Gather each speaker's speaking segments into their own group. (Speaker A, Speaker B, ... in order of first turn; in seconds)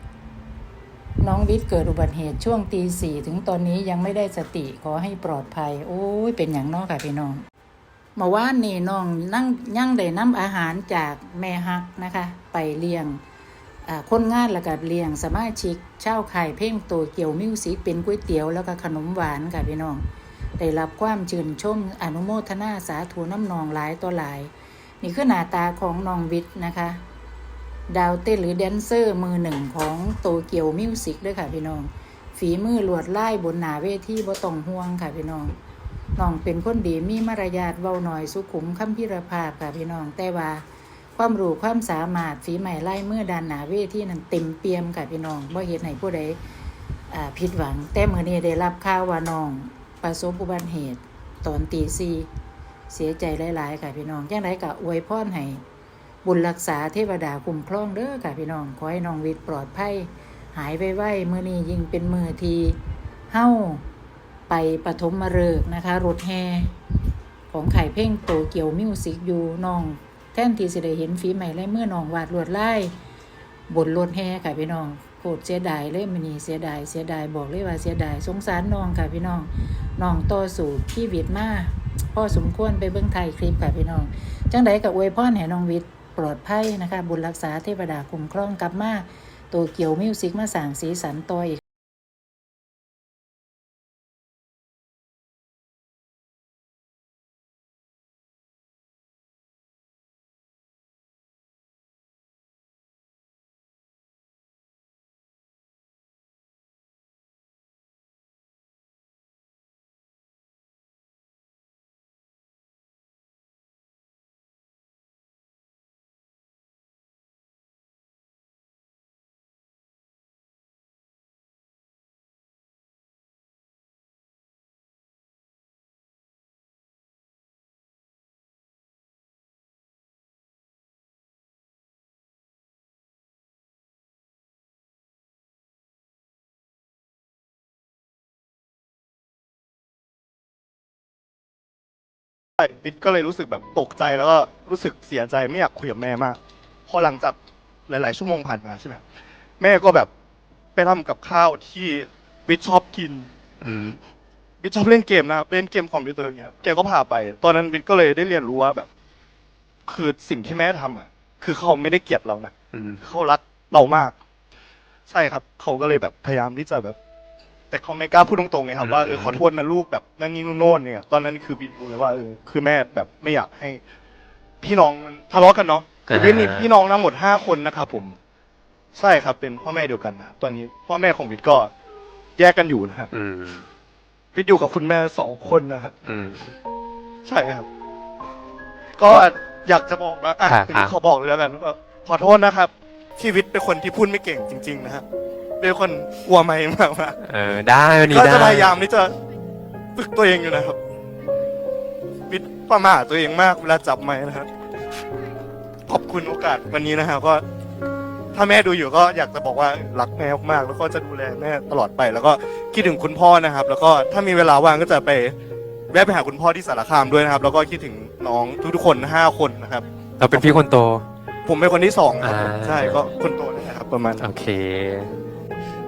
Speaker A: 1.2-7.4, 8.2-13.2, 13.9-20.0, 20.6-27.0, 27.9-35.5, 36.2-40.6, 41.2-46.4, 47.1-52.3, 52.9-55.6, 56.2-62.8, 63.3-63.9, 64.5-66.7, 67.5-72.9, 73.7-91.6
Speaker B: 142.6-147.4, 147.9-149.0, 149.6-150.1, 150.8-153.3, 154.6-158.9, 159.9-164.2, 165.1-167.0, 167.7-173.8, 174.6-178.2, 178.9-181.7, 182.4-183.1, 184.3-185.9, 187.2-187.7, 189.0-195.1, 195.6-197.2, 198.1-199.1, 200.0-200.8, 202.3-204.5, 205.9-207.4, 208.3-215.3, 215.9-220.6, 221.5-224.3
Speaker C: 153.6-154.0, 162.7-163.0, 168.8-169.4, 176.1-176.7, 183.1-183.7, 186.1-186.6, 190.5-190.9, 197.2-198.7, 220.2-221.0, 222.2-223.0, 224.2-225.1